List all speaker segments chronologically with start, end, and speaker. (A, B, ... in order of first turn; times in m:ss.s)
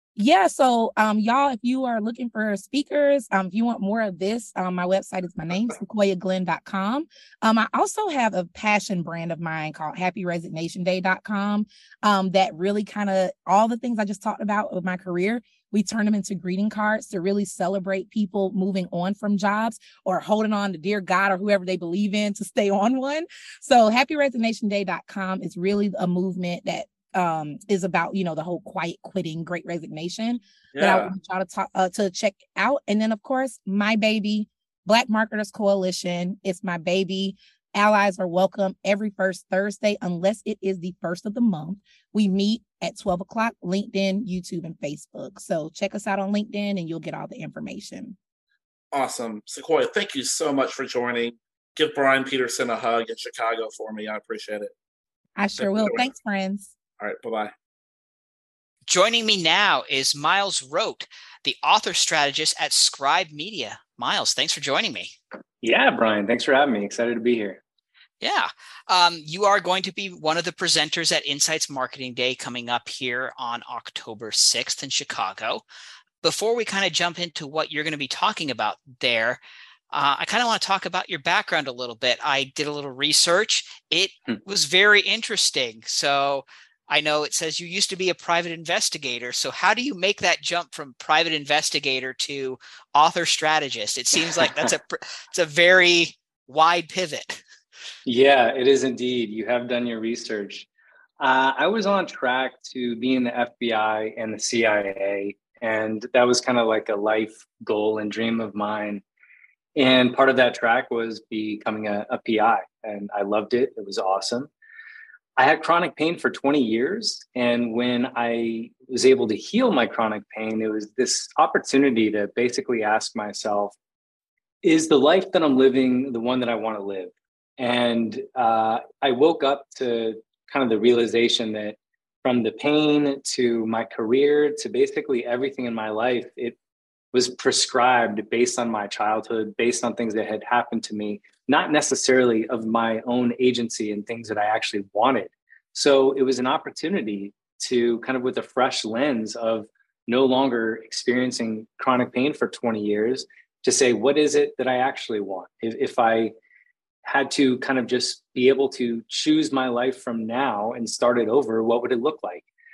0:00.2-0:48.2 A
0:30.8-0:31.1 B
0:48.9-0:54.7 B
0:55.4-0:56.7 A
0:55.6-0:56.1 B
0:57.0-0:57.5 B
0:58.9-1:05.1 C
1:05.6-1:07.6 D
1:08.2-1:15.6 C
1:16.2-1:19.4 C
1:19.9-1:37.4 C
1:34.1-1:34.7 D
1:38.1-1:40.7 D
1:41.2-1:49.0 D
1:49.8-1:54.5 D
1:55.4-2:03.8 D
2:04.6-2:16.6 D
2:17.1-2:36.3 D
2:37.0-2:42.4 D